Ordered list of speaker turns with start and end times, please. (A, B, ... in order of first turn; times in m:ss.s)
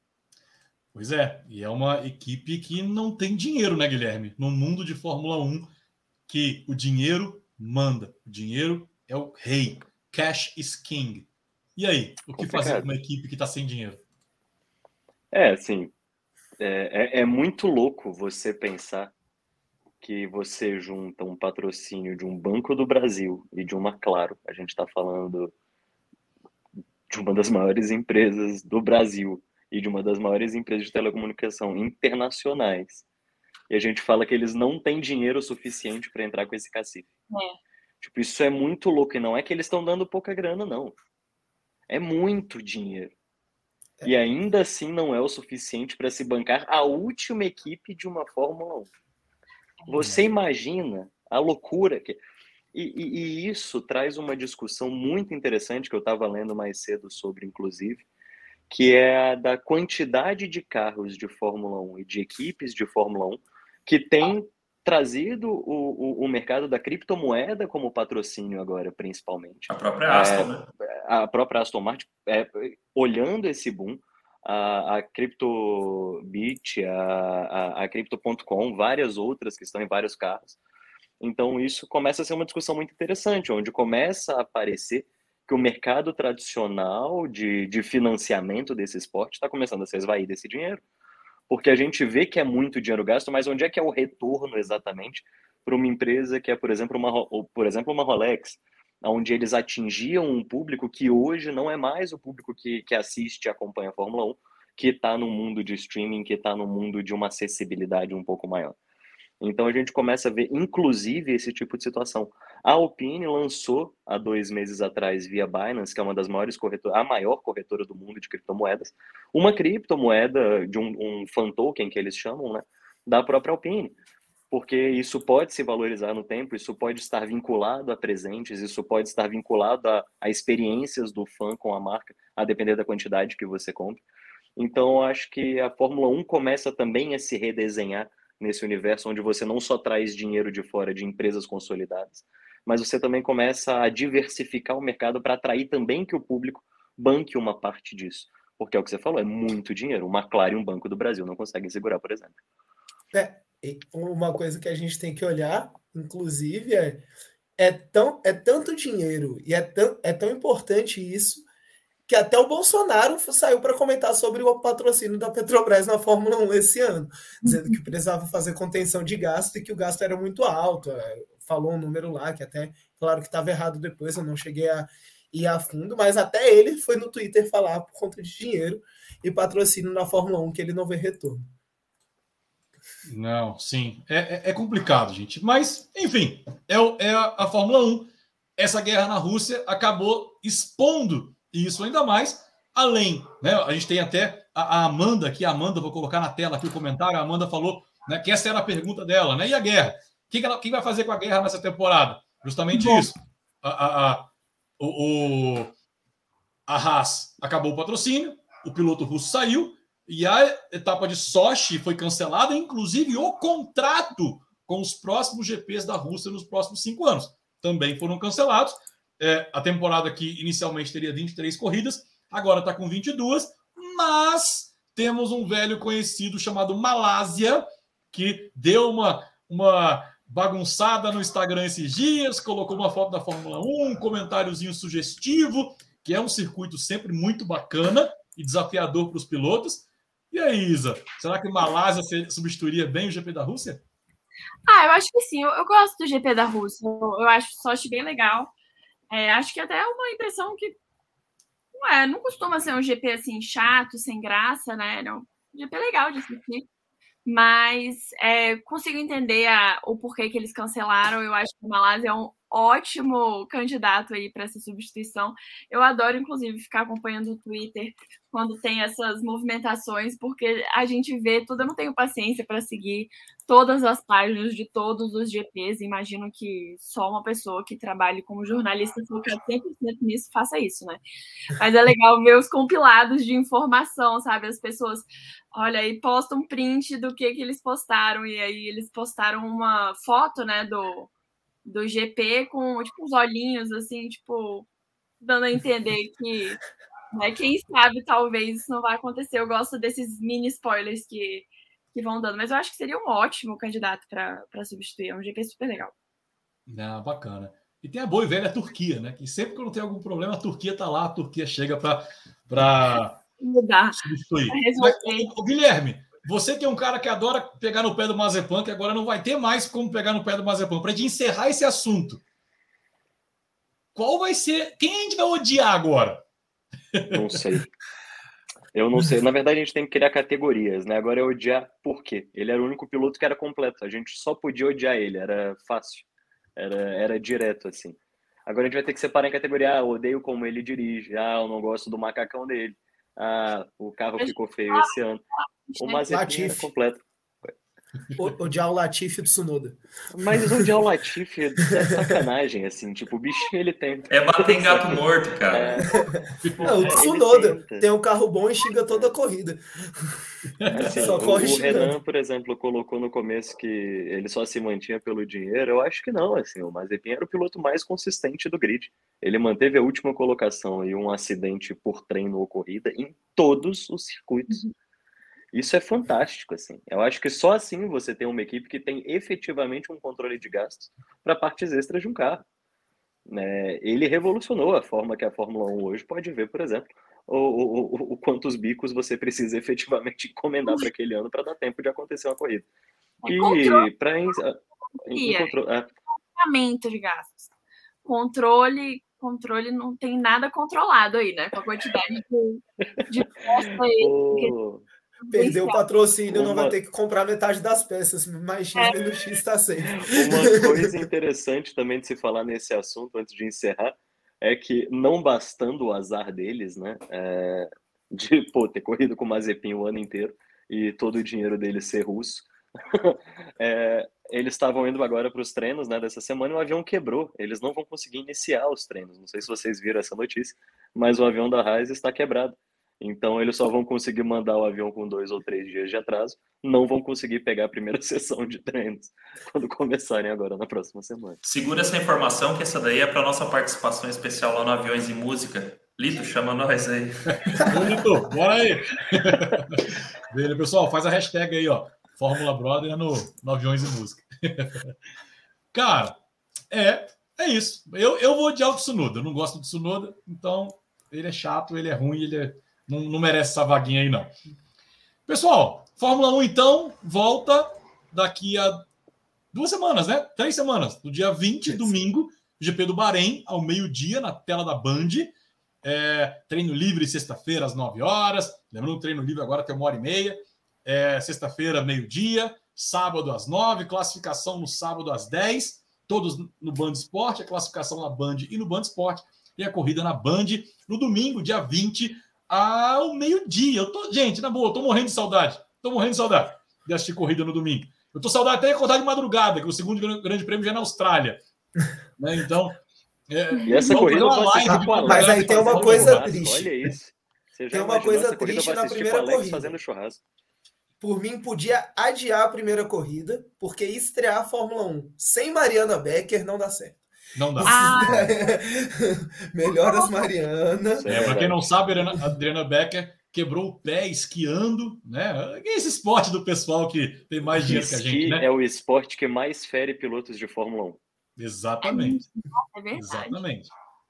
0:00.9-0:05.7 A
0:06.3-0:14.0 A
0:12.4-0:12.8 B
0:15.3-0:15.9 B
0:16.6-0:19.1 B
0:20.0-0:25.5 B
0:27.1-0:33.0 B
0:33.7-0:37.1 B
0:37.3-0:37.6 C
0:38.0-0:40.9 B
0:41.9-0:43.1 B
0:44.0-0:48.9 B
0:49.9-0:52.2 B
0:52.7-0:58.0 B
0:58.7-1:20.6 B
1:09.7-1:10.7 D
1:21.2-1:30.8 B
1:31.5-1:48.8 B
1:49.4-2:04.0 B
2:04.5-2:14.0 B
2:14.6-2:32.4 B
2:33.1-2:37.0 E
2:37.6-2:41.4 E
2:42.1-3:01.5 E
2:47.4-2:47.8 C
3:03.0-3:24.3 A
3:22.7-3:23.1 C
3:24.8-3:25.7 A
3:26.7-4:03.8 A
4:04.7-4:08.5 C
4:09.1-4:10.8 C
4:11.7-4:16.6 C
4:17.2-4:41.0 C
4:41.5-4:51.1 C
4:51.6-4:54.7 C
4:55.2-4:56.6 C
4:57.1-5:05.9 C
5:06.7-5:13.2 A
5:13.4-5:15.3 C
5:13.9-5:22.2 A
5:23.9-5:26.2 A
5:26.9-5:27.4 A
5:27.1-5:27.7 B
5:28.7-5:45.2 B
5:44.2-5:46.1 C
5:45.8-5:47.5 B
5:46.1-5:46.7 E
5:48.2-5:50.7 E
5:50.1-5:57.8 B
5:54.1-5:55.8 D
5:55.9-6:02.0 E
5:56.4-5:56.8 A
6:00.6-6:01.1 A
6:00.7-6:14.6 B
6:15.5-6:22.4 B
6:23.3-6:32.7 B
6:33.2-6:33.9 C
6:33.2-6:35.9 B
6:35.1-6:35.5 C
6:36.3-6:37.5 C
6:38.0-6:44.5 C
6:43.5-6:44.8 B
6:45.2-6:45.8 C
6:45.3-6:51.0 E
6:46.3-6:46.7 B
6:50.0-7:21.4 B
7:21.4-7:27.8 D
7:27.3-7:34.9 A
7:35.7-7:36.2 A
7:36.7-7:44.4 A
7:45.2-7:48.8 A
7:49.5-7:55.3 A
7:55.8-8:21.4 A
8:22.2-8:26.3 A
8:23.6-8:30.2 B
8:24.7-8:26.9 E
8:27.7-8:29.8 E
8:31.0-8:37.0 E
8:37.3-8:38.3 A
8:37.6-8:42.1 E
8:37.6-8:38.2 C
8:39.7-8:40.1 C
8:41.0-8:41.6 B
8:41.0-8:48.4 A
8:47.5-8:51.0 B
8:51.4-8:52.2 A
8:51.8-8:53.4 C
8:52.9-8:53.7 A